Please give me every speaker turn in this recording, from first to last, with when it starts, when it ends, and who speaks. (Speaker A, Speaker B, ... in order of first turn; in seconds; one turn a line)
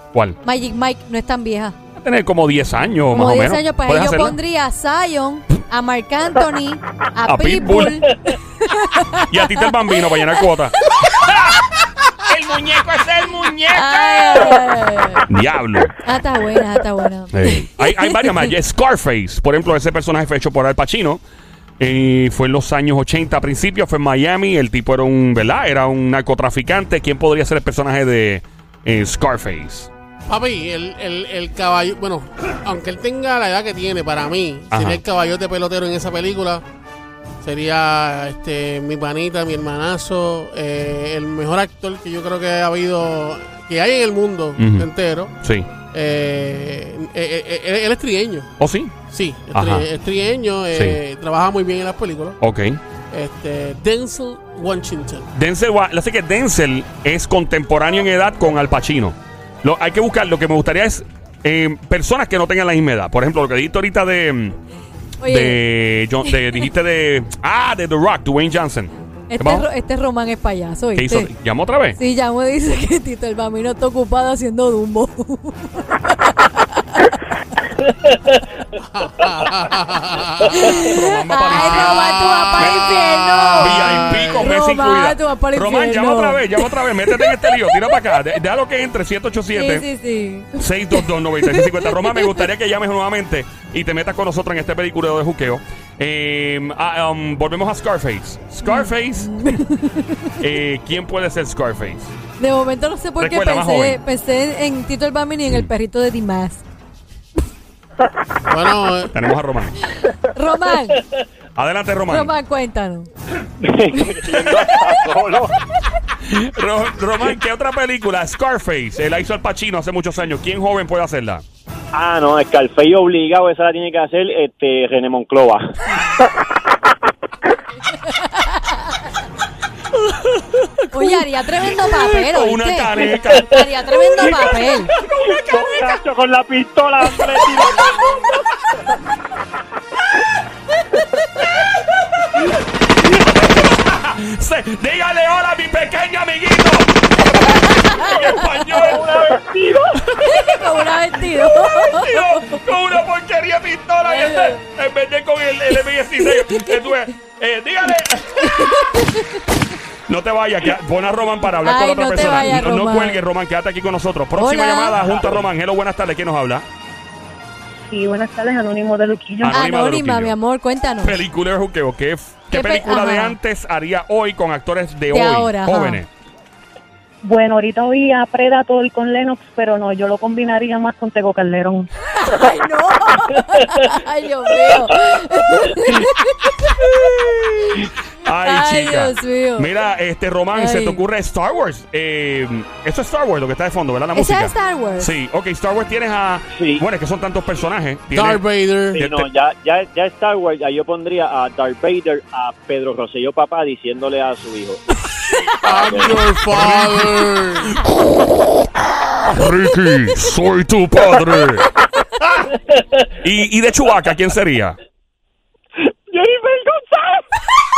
Speaker A: 0.4-1.8
Speaker B: 2.0-4.4
Speaker A: 3.1-10.5
Speaker B: 7.2-8.1
Speaker B: 9.3-11.7
Speaker B: 12.2-14.6
Speaker A: 13.7-15.3
Speaker B: 15.3-15.9
Speaker A: 16.0-18.5
Speaker B: 17.3-21.2
Speaker B: 21.8-29.9
Speaker C: 30.3-36.6
Speaker B: 34.7-35.0
Speaker C: 37.4-45.3
Speaker B: 44.6-44.9
Speaker B: 45.4-45.7
Speaker C: 45.9-48.5
Speaker B: 48.6-48.9
Speaker C: 49.1-52.4
Speaker B: 49.5-49.9
Speaker B: 50.7-51.0
Speaker B: 52.4-52.8
Speaker C: 53.1-55.3
Speaker B: 55.3-64.6
Speaker A: 65.2-65.6
Speaker B: 65.2-69.7
Speaker A: 66.2-66.7
Speaker A: 69.3-71.3
Speaker B: 71.0-72.0
Speaker A: 71.9-77.1
Speaker C: 78.8-80.7
Speaker B: 80.4-83.0
Speaker A: 80.4-88.0
Speaker C: 83.0-84.5
Speaker B: 83.5-89.9
Speaker A: 89.5-92.5
Speaker B: 90.6-99.6
Speaker A: 98.6-100.3
Speaker B: 100.4-102.1
Speaker A: 102.4-106.6
Speaker B: 103.2-104.0
Speaker C: 108.5-109.1
Speaker B: 109.1-109.8
Speaker A: 109.8-111.1
Speaker B: 111.5-112.3
Speaker A: 112.1-113.1
Speaker A: 113.9-114.5
Speaker B: 114.2-114.9
Speaker D: 114.5-115.0
Speaker B: 116.2-121.4
Speaker A: 122.2-123.0
Speaker A: 124.2-125.6
Speaker A: 128.2-128.9
Speaker B: 129.9-133.6
Speaker A: 130.9-138.2
Speaker B: 134.2-135.2
Speaker B: 142.3-149.2
Speaker A: 147.4-152.6
Speaker B: 150.1-158.9
Speaker A: 154.1-154.6
Speaker A: 156.2-156.8
Speaker A: 158.4-159.4
Speaker B: 160.1-166.7
Speaker A: 161.6-163.2
Speaker A: 164.3-165.1
Speaker E: 167.9-169.6
Speaker B: 169.4-170.3
Speaker A: 169.5-171.2
Speaker B: 171.0-176.1
Speaker A: 172.5-173.4
Speaker A: 175.1-176.0
Speaker E: 177.2-181.9
Speaker A: 182.1-186.9
Speaker B: 186.6-199.3
Speaker A: 188.3-189.7
Speaker A: 190.5-191.0
Speaker A: 194.2-195.1
Speaker C: 198.1-199.0
Speaker D: 200.4-201.2
Speaker D: 202.4-204.7
Speaker C: 205.6-207.8
Speaker A: 205.7-206.2
Speaker B: 206.5-208.0
Speaker B: 209.2-211.7
Speaker B: 213.2-214.8
Speaker A: 216.2-217.2